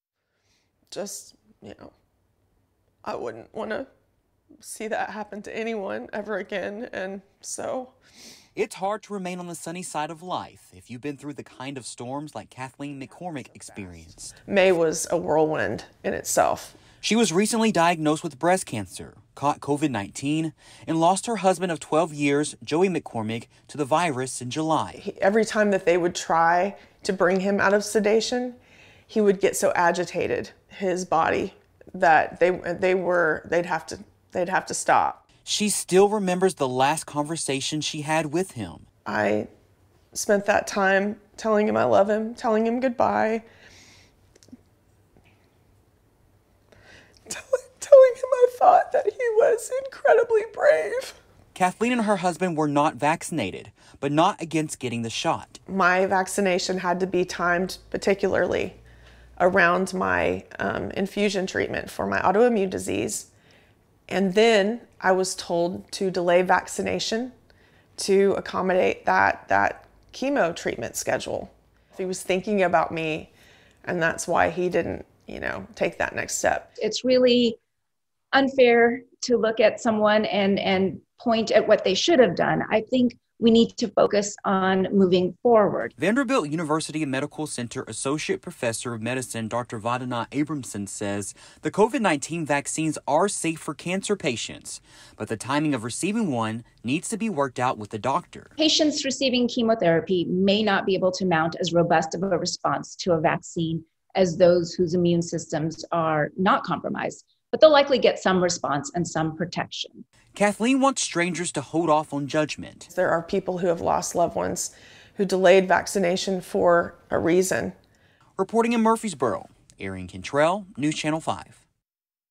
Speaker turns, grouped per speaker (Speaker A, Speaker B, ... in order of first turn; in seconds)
Speaker A: 0.9-1.9, 3.0-3.9, 4.6-8.0, 14.5-16.8, 25.0-35.2, 39.1-39.5, 40.1-43.4, 47.3-51.2, 55.7-58.8, 59.4-63.3, 64.1-67.3, 68.0-73.3, 73.8-76.7, 112.9-117.8
Speaker B: 8.6-14.3, 17.0-25.0, 35.5-38.9, 51.5-55.6, 86.0-98.5, 110.3-112.9, 118.4-121.6
Speaker C: 76.8-77.6, 78.3-85.9, 98.6-110.0